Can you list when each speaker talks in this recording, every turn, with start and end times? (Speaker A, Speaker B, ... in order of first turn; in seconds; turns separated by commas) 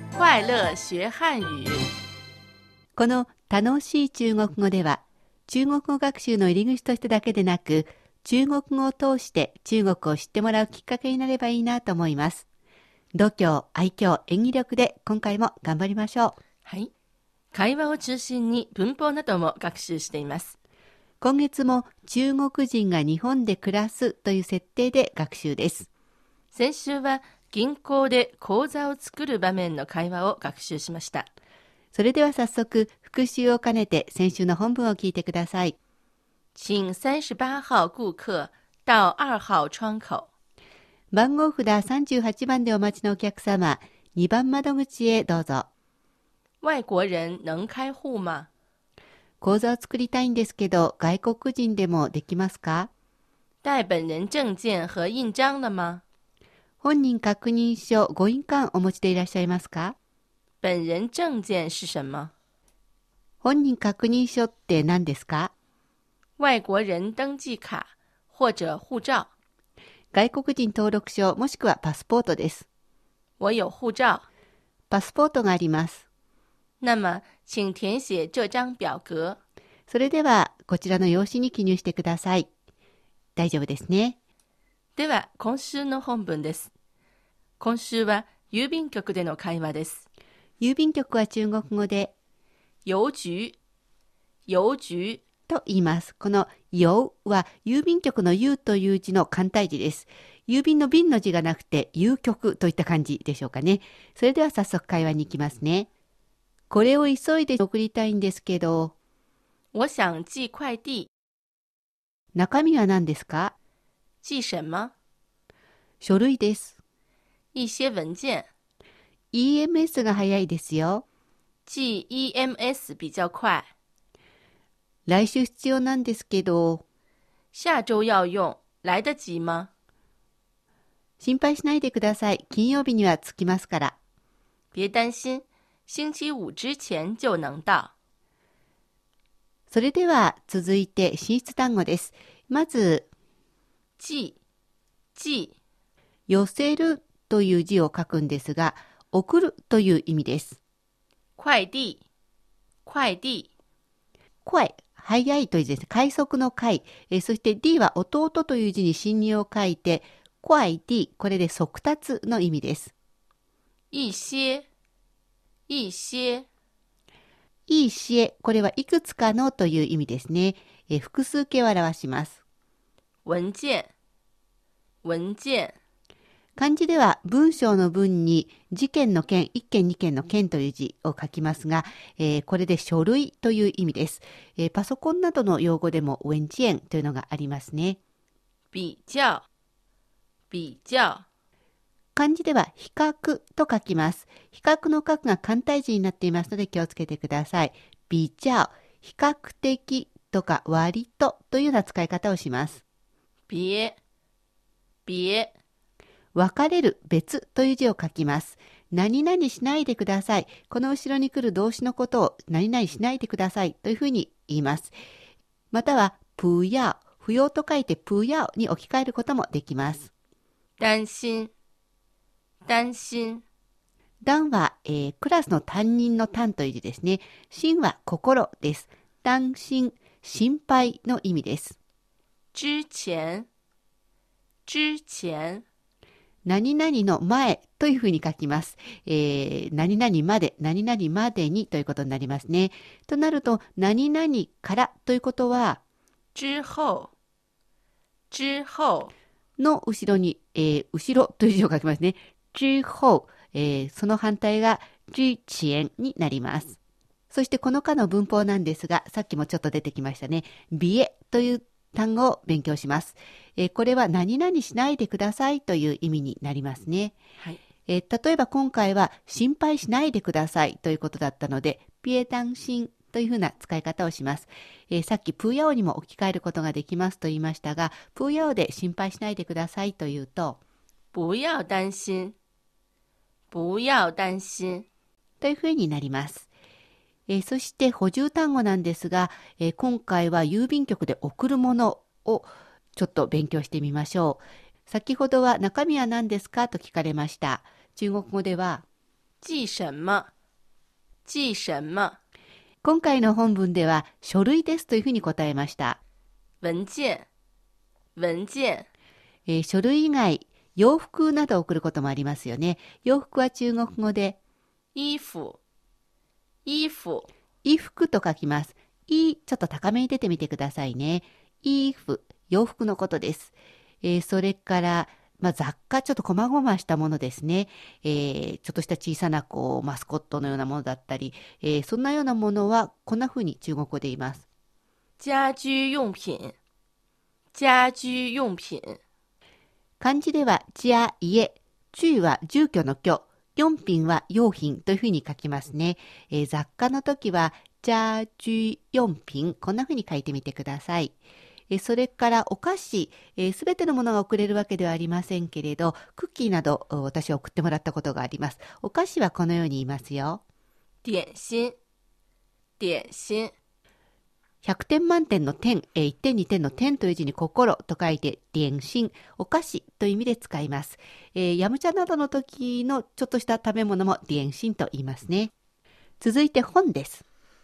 Speaker A: 0.1-1.9, Speaker B: 3.0-12.4, Speaker B: 13.1-16.4, Speaker A: 16.6-16.9, Speaker A: 17.5-20.5, Speaker B: 21.2-25.9, Speaker A: 26.5-31.3, Speaker B: 31.9-35.8, Speaker A: 36.5-40.3, Speaker B: 41.1-45.7, Speaker A: 46.6-48.5, Speaker B: 49.4-52.9, Speaker A: 53.6-56.0, Speaker B: 56.8-60.0, Speaker A: 60.6-62.3, Speaker B: 63.4-65.5, Speaker A: 66.4-69.3, Speaker B: 70.1-72.7, Speaker A: 73.4-74.2, Speaker B: 74.9-76.0, Speaker A: 76.8-79.4, Speaker B: 79.9-82.5, Speaker B: 83.4-84.2, Speaker A: 85.0-86.7, Speaker A: 87.6-90.0, Speaker B: 90.6-92.1, Speaker A: 92.8-93.6, Speaker A: 94.5-95.2, Speaker B: 95.5-105.9, Speaker B: 106.7-108.9, Speaker A: 109.7-111.1, Speaker B: 112.3-113.5, Speaker A: 114.2-114.9, Speaker B: 116.0-116.8, Speaker A: 117.5-118.5, Speaker B: 119.3-121.0, Speaker A: 121.7-123.7, Speaker B: 125.1-126.8, Speaker A: 127.5-129.7, Speaker B: 131.2-133.9, Speaker A: 134.7-137.9, Speaker B: 139.7-143.1, Speaker A: 144.0-144.4, Speaker A: 145.2-145.5, Speaker B: 146.3-150.6, Speaker A: 151.4-152.0, Speaker A: 152.8-153.5, Speaker B: 154.4-162.9, Speaker A: 163.9-164.7, Speaker A: 165.7-166.5, Speaker B: 167.7-172.4, Speaker A: 173.2-173.9, Speaker A: 175.0-175.8, Speaker B: 176.6-188.0, Speaker A: 188.7-189.4, Speaker A: 190.5-191.2, Speaker B: 192.2-202.8, Speaker A: 203.5-204.0, Speaker A: 205.1-205.5, Speaker B: 206.3-214.9, Speaker B: 215.7-220.1, Speaker A: 220.8-221.5, Speaker A: 222.7-223.4, Speaker B: 224.2-231.8, Speaker A: 232.5-233.5, Speaker A: 234.7-235.6, Speaker B: 236.4-245.8, Speaker A: 246.3-247.1, Speaker A: 248.3-249.1, Speaker B: 249.6-256.8, Speaker B: 257.3-267.2, Speaker B: 267.9-280.6, Speaker A: 281.1-282.4, Speaker A: 283.5-284.9, Speaker B: 285.4-286.5, Speaker B: 287.3-298.8, Speaker A: 299.4-300.3, Speaker A: 301.2-302.2, Speaker B: 302.8-306.0, Speaker A: 306.6-307.3, Speaker A: 308.2-308.9, Speaker B: 309.5-314.4, Speaker A: 314.9-315.6, Speaker A: 316.7-317.3, Speaker B: 317.6-334.4, Speaker A: 335.2-336.6, Speaker A: 337.5-339.0, Speaker B: 340.0-351.1, Speaker B: 351.7-360.4, Speaker A: 361.0-361.8, Speaker A: 362.8-363.5, Speaker B: 364.6-375.5, Speaker B: 376.2-377.2